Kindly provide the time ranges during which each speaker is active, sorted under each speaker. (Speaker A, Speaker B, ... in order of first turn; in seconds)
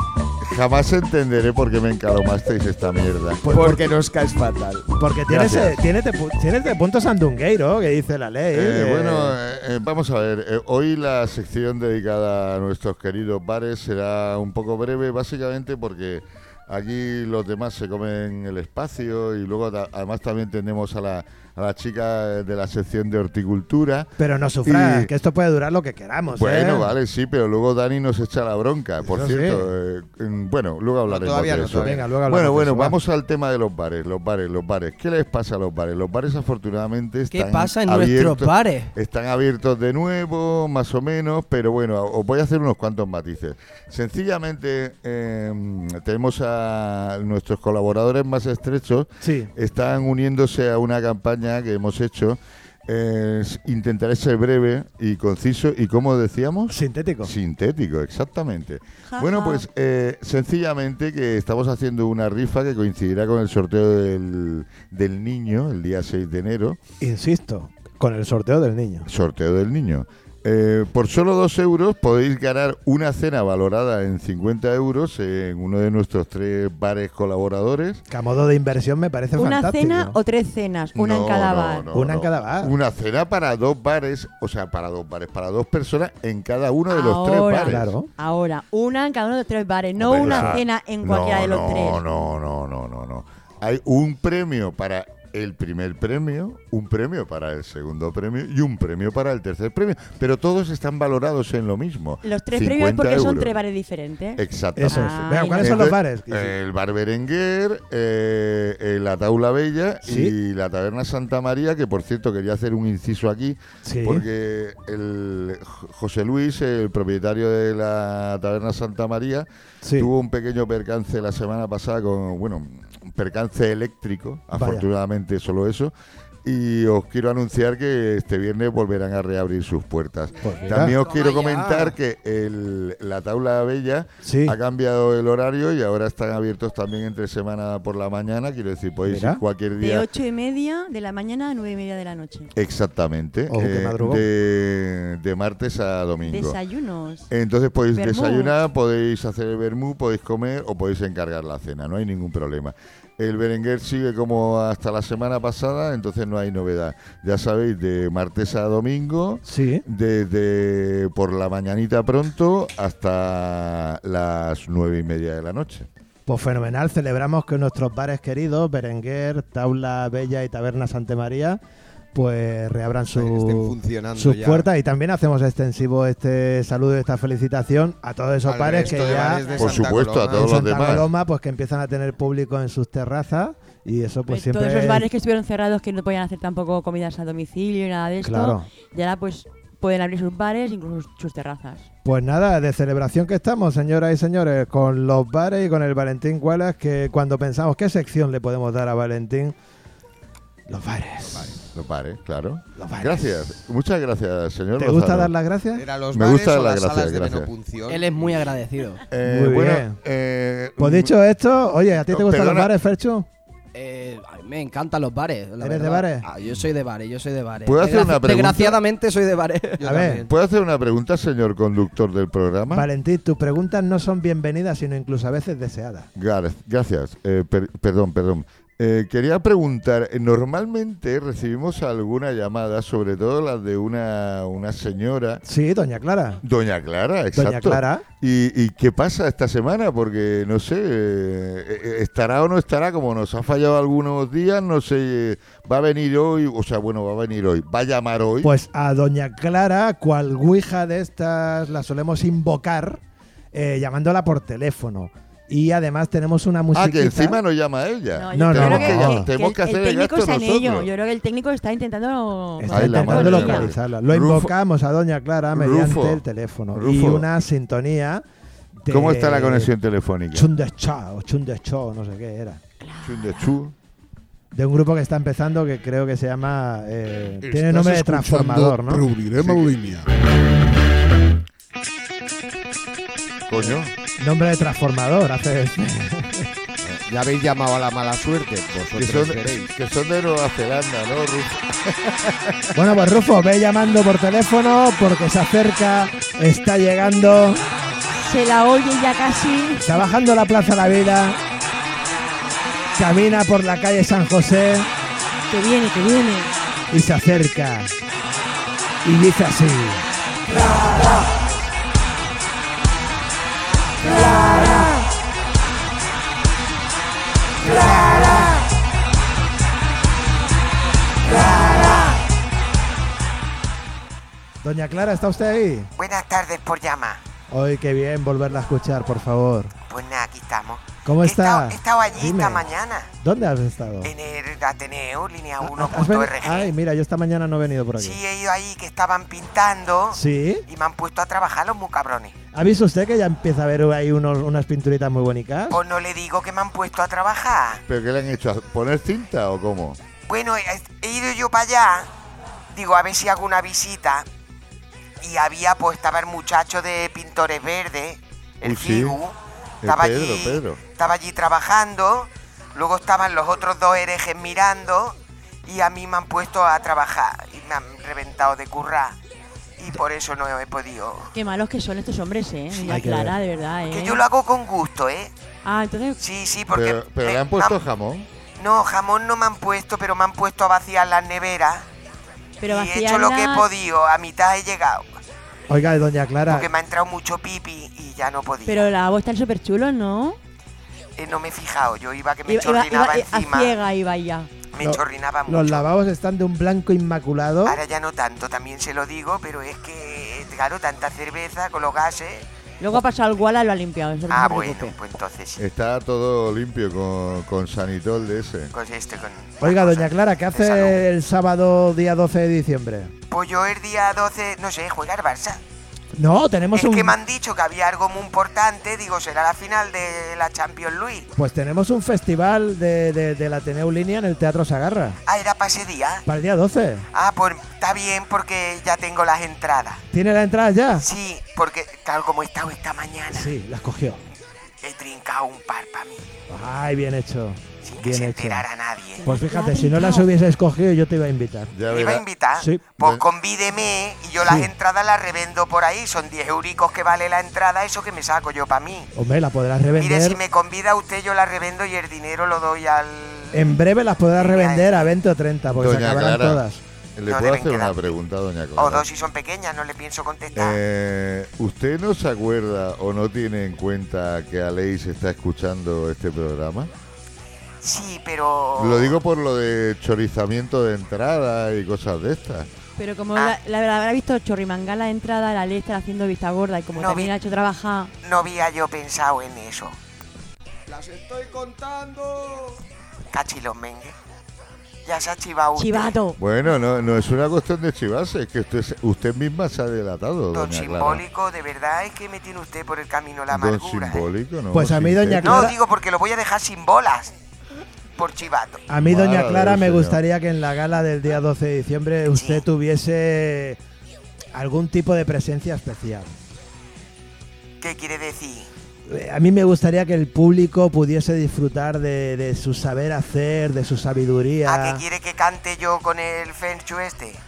Speaker A: 0.4-3.4, 5.3-5.8, 8.5-24.1, 24.6-25.1, 26.3-66.8, 69.1-78.0, 80.9-87.9, 90.0-103.5, 104.4-125.9, 126.5-140.1, 142.5-146.6, 147.3-165.9, 179.5-181.1, 201.7-205.3, 206.1-207.5, 209.1-211.1, 212.1-212.7, 217.7-218.8, 220.3-222.9, 226.2-235.4, 236.4-248.5, 256.7-260.9, 262.7-264.5, 265.5-266.2, 266.7-267.3, 268.9-270.5, 273.0-273.7, 279.4-279.8, 283.5-283.9, 288.9-292.3, 347.9-350.0, 358.6-359.2, 359.8-360.8, 376.7-378.3, 405.6-408.7, 441.7-442.2, 455.8-456.6, 457.2-459.1, 460.6-466.9, 468.8-472.7, 486.4-491.2, 493.5-495.7, 499.0-500.2
Speaker B: 3.4-3.9, 5.0-9.4, 24.2-26.9, 29.0-29.7, 31.8-33.0, 49.2-49.5, 56.7-57.3, 67.0-69.1, 78.1-80.2, 81.9-82.8, 87.6-88.1, 90.2-90.6, 104.8-106.5, 110.0-110.3, 113.8-114.3, 119.8-120.1, 124.5-124.9, 130.4-131.0, 134.2-134.6, 139.1-139.4, 143.5-144.3, 159.4-159.8, 166.3-171.6, 172.1-179.4, 180.3-185.1, 188.2-188.7, 192.1-199.6, 200.7-201.7, 202.8-203.6, 204.8-205.8, 209.2-210.0, 210.8-213.3, 215.6-216.3, 219.8-220.3, 222.7-226.1, 235.4-236.4, 237.3-238.1, 248.4-253.0, 253.5-257.4, 258.3-259.3, 262.6-269.7, 270.3-272.6, 274.5-279.1, 283.6-286.5, 292.7-297.6, 299.8-301.4, 303.0-304.9, 306.9-307.9, 309.0-310.1, 324.6-325.9, 327.5-329.7, 331.1-332.7, 333.2-334.1, 335.6-338.2, 340.1-340.6, 342.5-345.8, 372.9-373.4, 385.7-386.7, 394.8-397.8, 409.6-413.1, 416.1-417.2, 421.4-425.2, 426.3-427.1, 430.1-431.1, 433.3-434.2, 436.5-438.7, 439.2-441.7, 442.6-442.9, 444.4-444.7, 449.1-450.4, 453.5-456.8, 494.7-495.8, 498.9-503.8, 504.5-506.3, 509.1-515.0
Speaker C: 3.5-5.0, 31.1-32.0, 173.1-174.7, 178.4-180.5, 201.3-201.6, 205.8-208.4, 219.8-220.3, 286.8-289.7, 480.9-482.8
Speaker D: 37.3-38.9, 130.6-132.0, 207.9-209.0, 213.7-219.8
Speaker E: 59.1-59.6, 79.4-81.9, 86.9-92.0, 102.2-105.9, 139.8-142.5, 146.3-147.3, 147.9-148.6, 179.2-179.7, 184.3-191.9, 258.1-263.7, 272.8-273.5, 298.1-300.0, 305.5-306.5, 371.3-374.2, 375.6-376.2, 382.6-383.7, 388.6-390.4, 392.5-394.6, 402.8-404.9, 439.2-440.3, 473.0-478.1, 485.8-486.4
Speaker F: 277.4-280.1
Speaker G: 317.7-318.5, 321.4-321.9, 326.0-327.2, 329.9-333.1, 334.0-336.7, 338.0-342.4, 345.7-347.8, 350.3-352.1, 352.7-354.3, 355.2-365.1, 365.7-369.2, 369.8-371.3, 372.7-373.1, 373.9-375.3, 376.2-377.8, 378.6-381.9, 382.6-385.1, 386.5-388.9, 391.2-393.8, 394.7-395.9, 397.6-402.5, 404.3-405.6, 408.7-411.0, 413.3-415.6, 416.7-421.3, 425.3-426.2, 427.1-430.0, 431.0-433.5, 434.8-436.2, 437.8-439.2, 441.9-449.1, 450.0-453.8, 454.4-454.9, 457.3-458.2, 458.8-460.8, 467.8-469.2, 476.9-477.3, 478.2-479.9, 483.3-484.1, 485.1-486.2, 490.5-494.3, 495.4-497.3, 498.2-498.9, 502.3-502.6, 507.8-508.7, 514.6-517.4